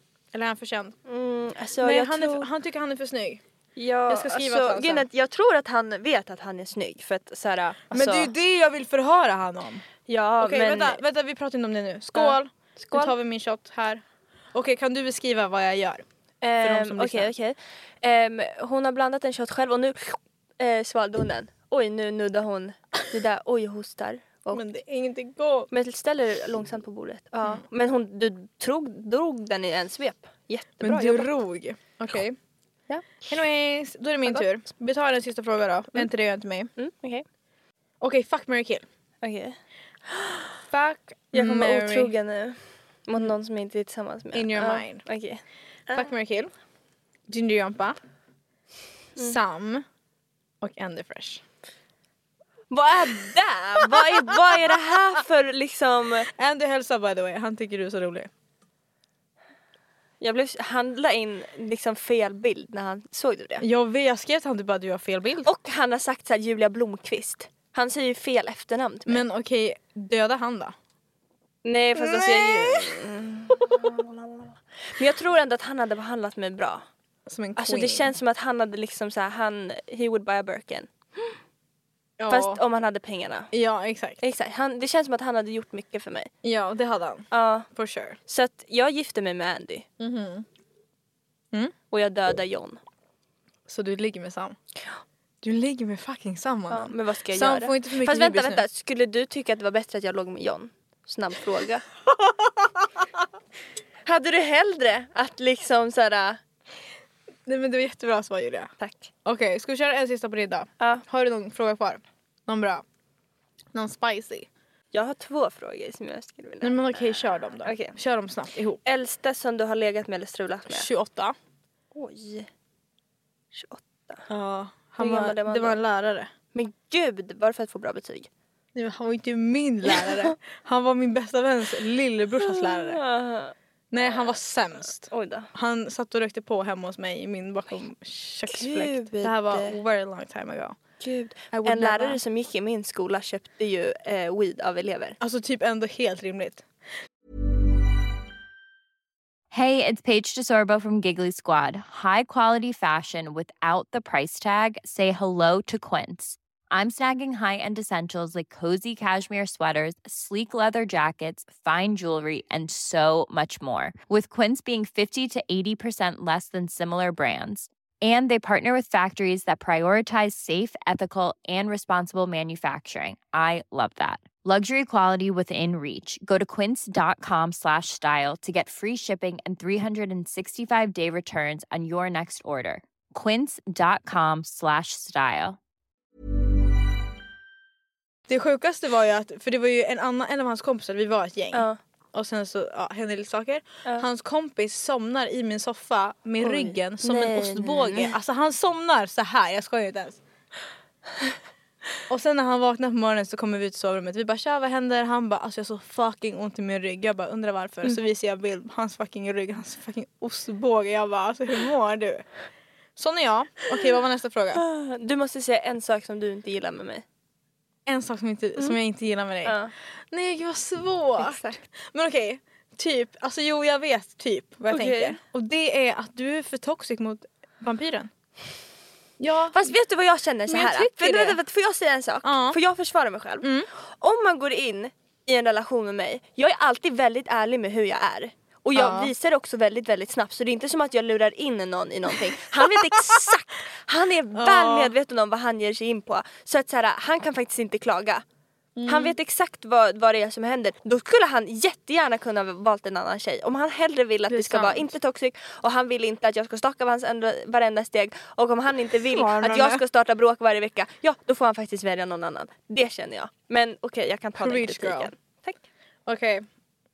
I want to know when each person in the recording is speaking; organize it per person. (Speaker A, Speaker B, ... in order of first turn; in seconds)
Speaker A: 0.3-1.0, 1.8-3.4, 4.1-5.1, 7.9-9.9, 10.4-14.0, 14.5-16.1, 16.6-17.3, 24.5-25.7, 30.8-32.4, 33.3-36.7, 38.0-38.9, 40.7-42.1, 44.3-45.0, 45.9-46.5, 47.3-48.0, 49.2-49.9, 50.6-51.4, 54.0-54.4, 56.4-58.3, 63.6-65.5, 69.1-70.8, 72.0-73.0, 73.5-73.8, 77.3-78.2, 82.2-82.6, 83.5-84.2, 86.4-88.2, 90.0-90.5, 93.7-94.6, 95.4-98.7, 102.2-102.7, 107.5-108.7, 109.2-112.8, 113.7-114.5, 116.6-118.8, 120.7-121.3, 124.3-126.3, 128.8-133.0, 133.9-140.8, 141.5-142.2, 145.2-146.7, 188.3-200.2, 202.1-212.2, 213.0-214.6, 217.9-219.6, 220.1-228.1, 229.2-229.7, 230.5-231.4, 232.2-232.6, 233.4-233.7, 238.8-239.1, 244.4-244.9, 248.8-249.2, 254.3-254.9, 259.1-259.8, 264.4-265.1, 266.1-266.4
Speaker B: 1.1-2.5, 3.8-8.3, 10.1-11.0, 12.1-13.1, 16.4-24.6, 25.7-31.3, 32.9-33.2, 36.8-37.2, 39.2-39.6, 40.1-40.5, 41.3-46.1, 52.7-56.3, 60.2-63.7, 65.5-69.2, 71.7-76.8, 77.6-81.3, 82.3-83.5, 84.2-86.3, 87.3-87.7, 88.3-89.9, 91.9-92.8, 96.7-101.8, 104.1-106.4, 108.8-109.1, 114.9-118.0, 118.8-120.9, 121.9-122.5, 123.5-124.3, 125.0-125.8, 126.5-128.3, 129.9-130.3, 132.4-134.4, 135.0-135.5, 138.5-139.8, 141.0-145.2, 191.5-191.8, 196.4-198.1, 214.6-217.0, 219.4-219.7, 221.2-221.6, 224.7-225.2, 229.5-248.2, 248.9-265.6
Speaker C: 149.5-185.6